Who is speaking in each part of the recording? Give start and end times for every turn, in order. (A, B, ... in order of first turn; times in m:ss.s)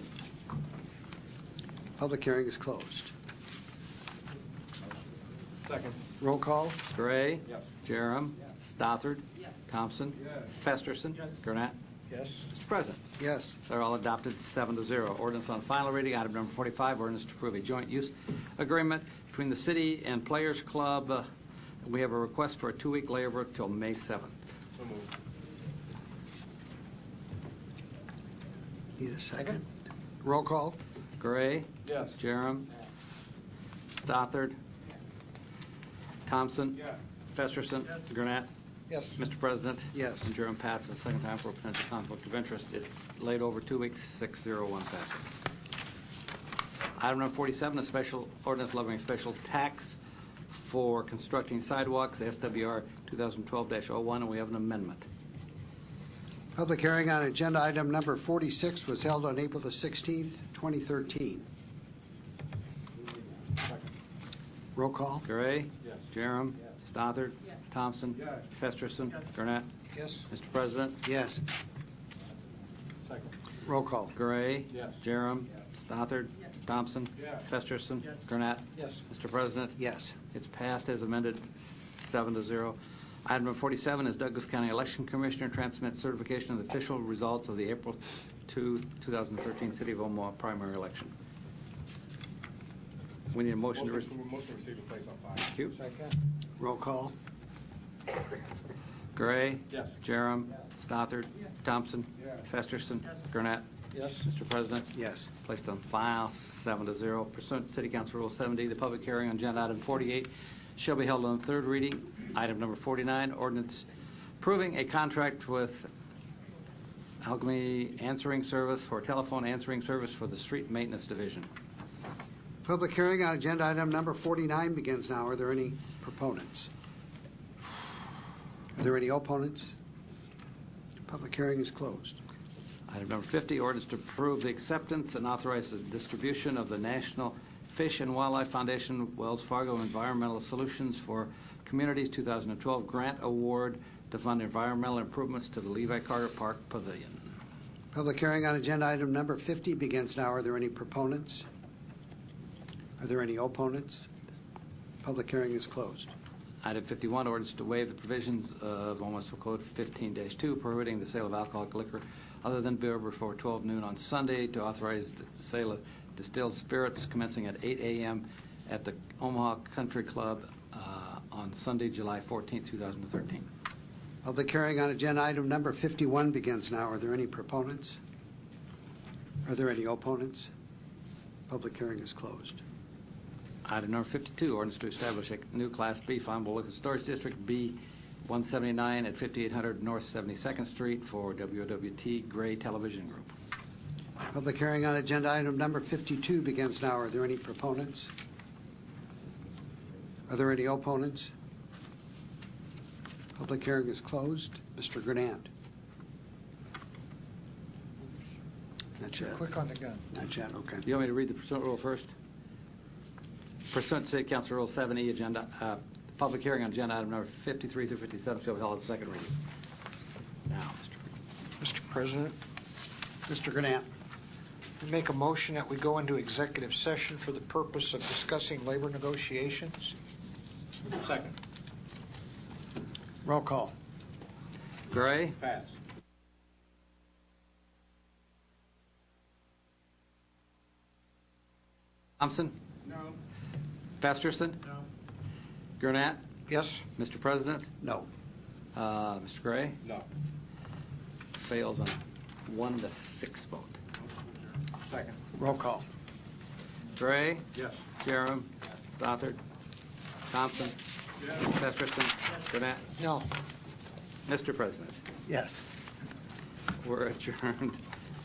0:02.0-0:03.1 A
0:05.6-0:06.0 B
0:06.2-0:06.8 A
0:06.9-0:11.8 C
0:12.1-0:12.5 D
0:12.5-0:13.0 C
0:13.2-0:13.6 A
0:13.7-0:21.3 C
0:21.8-0:24.5 C
0:24.8-0:25.1 B
0:29.0-0:29.7 A
0:30.2-0:30.8 A
0:31.2-0:32.7 C
0:31.8-0:32.1 B
0:33.9-0:34.6 C
0:36.2-0:38.5 C
0:38.9-0:39.2 D
0:39.2-0:45.3 C
0:39.9-0:40.3 A
0:47.0-0:55.0 C
0:56.5-1:01.4 A
1:03.6-1:03.9 B
1:04.7-1:05.2 A
1:05.2-1:09.7 C
1:09.9-1:10.2 D
1:10.3-1:11.0 C
1:11.0-1:11.4 A
1:13.0-1:13.3 B
1:13.6-1:14.1 A
1:14.1-1:19.8 C
1:19.8-1:20.1 A
1:20.3-1:31.1 C
1:33.3-1:34.1 C
1:33.7-1:35.5 B
1:35.7-1:36.1 D
1:36.6-1:37.1 A
1:39.2-1:43.6 C
1:43.9-1:44.2 D
1:44.2-1:44.9 C
1:44.9-1:45.3 A
1:45.4-1:53.9 C
1:54.4-1:55.9 C
1:57.2-2:01.5 C
2:02.6-2:06.7 A
2:08.8-2:09.8 A
2:11.1-2:12.2 A
2:12.9-2:27.2 C
2:27.9-2:31.4 A
2:33.0-2:34.1 A
2:35.0-2:36.1 A
2:36.6-2:53.4 C
2:54.2-2:58.0 A
2:59.4-3:00.5 A
3:01.5-3:02.6 A
3:03.6-3:13.3 C
3:14.3-3:18.1 A
3:20.3-3:21.3 A
3:23.3-3:25.5 A
3:29.0-3:29.4 A
3:29.2-3:30.0 D
3:30.1-3:30.8 A
3:30.8-3:32.1 C
3:33.7-3:39.4 C
3:40.5-3:41.1 C
3:41.6-3:42.4 D
3:43.3-3:43.9 A
3:44.8-3:50.0 D
3:50.9-3:51.4 B
3:53.2-3:53.7 A
3:54.9-3:55.4 C
3:55.4-3:55.7 B
4:02.2-4:02.6 C
4:02.8-4:03.2 B
4:04.0-4:04.8 C
4:05.8-4:06.2 C
4:06.5-4:06.8 D
4:07.0-4:07.7 C
4:07.8-4:08.1 A
4:08.7-4:09.8 C
4:11.3-4:13.8 C
4:14.7-4:15.3 B
4:15.3-4:15.8 A
4:17.0-4:19.4 C
4:17.5-4:17.8 B
4:20.3-4:22.9 C
4:23.0-4:23.3 D
4:24.3-4:25.0 C
4:25.3-4:25.6 A
4:26.8-4:27.8 C